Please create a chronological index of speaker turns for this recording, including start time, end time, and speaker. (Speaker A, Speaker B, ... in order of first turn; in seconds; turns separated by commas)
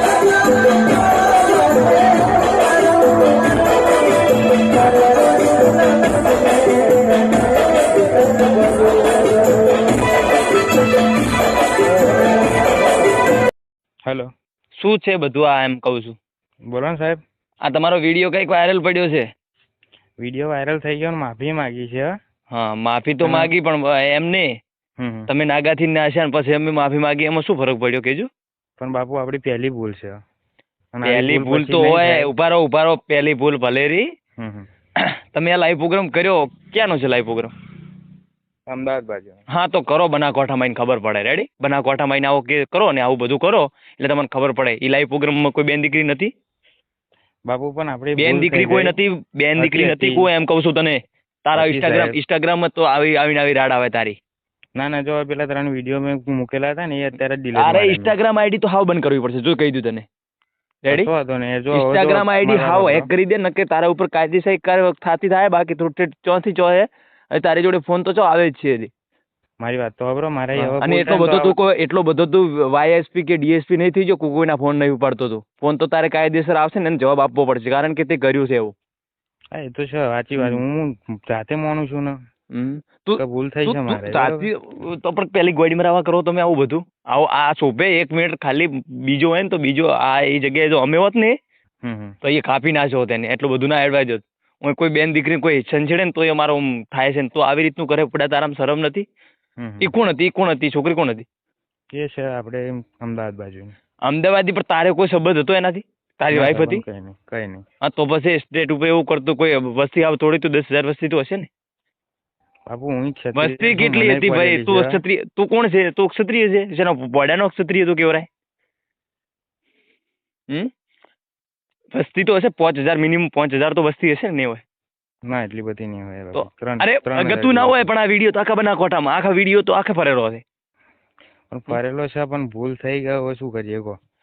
Speaker A: 14.8-16.1, Speaker B: 16.7-17.2, Speaker A: 17.6-19.2, Speaker B: 20.2-22.1, Speaker A: 22.5-24.5, Speaker B: 23.2-23.5, Speaker B: 25.0-25.3, Speaker A: 25.3-28.3, Speaker B: 28.8-30.2, Speaker B: 30.9-32.3, Speaker A: 31.0-34.0, Speaker B: 34.4-34.7, Speaker A: 35.0-37.5, Speaker B: 38.7-39.4, Speaker A: 39.5-46.3, Speaker B: 47.5-49.0, Speaker A: 48.2-54.1, Speaker B: 49.6-50.3, Speaker B: 51.5-52.2, Speaker B: 54.8-58.2, Speaker A: 57.5-60.0, Speaker A: 60.8-61.1, Speaker B: 60.9-63.1, Speaker A: 61.7-68.9, Speaker B: 69.6-71.5, Speaker A: 70.5-78.7, Speaker B: 79.5-82.2, Speaker A: 82.5-91.3, Speaker B: 83.2-84.5, Speaker B: 91.8-92.2, Speaker A: 92.2-99.0, Speaker B: 99.6-99.9, Speaker A: 99.8-101.2, Speaker B: 101.9-103.7, Speaker A: 104.0-106.8, Speaker B: 106.3-107.6, Speaker A: 107.8-111.5, Speaker B: 112.7-115.0, Speaker A: 113.3-118.3, Speaker A: 121.9-124.6, Speaker B: 125.3-127.9, Speaker A: 126.3-130.4, Speaker B: 131.5-133.9